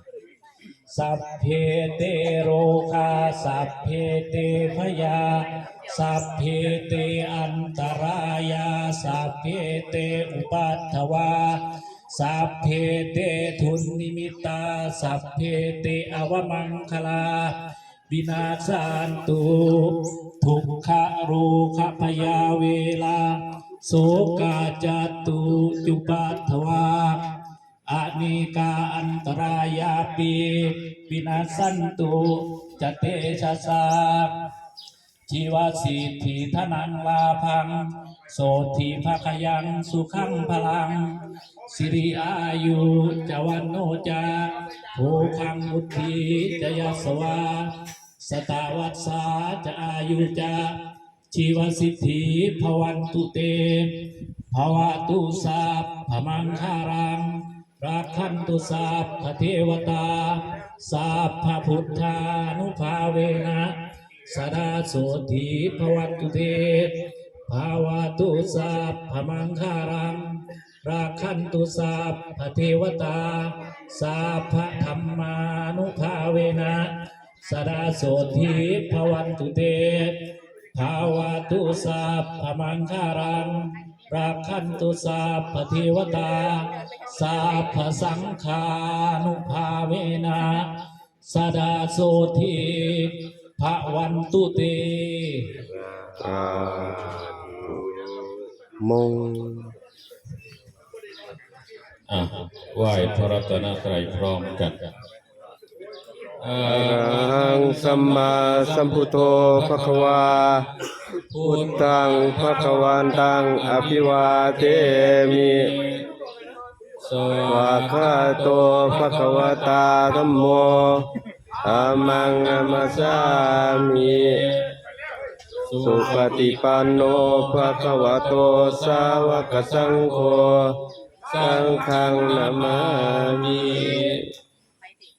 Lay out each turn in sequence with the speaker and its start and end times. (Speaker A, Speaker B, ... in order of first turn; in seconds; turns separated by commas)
Speaker A: 0.9-11.6, Speaker A: 12.1-17.6, Speaker A: 18.1-27.2, Speaker A: 27.9-34.3, Speaker A: 35.3-37.8, Speaker A: 38.3-41.0, Speaker A: 41.7-50.7, Speaker A: 51.3-63.7, Speaker A: 64.3-66.9, Speaker A: 67.5-76.9, Speaker A: 77.4-80.2, Speaker A: 80.8-90.7, Speaker A: 91.3-95.5, Speaker B: 96.2-99.7, Speaker C: 102.1-104.9, Speaker C: 106.4-110.5, Speaker B: 106.6-110.7, Speaker C: 111.3-116.0, Speaker B: 111.4-115.7, Speaker C: 117.0-121.0, Speaker B: 117.4-121.0, Speaker C: 121.6-124.7, Speaker B: 121.6-124.4, Speaker C: 125.7-130.7, Speaker B: 125.8-130.7, Speaker C: 131.3-134.2, Speaker B: 131.4-134.2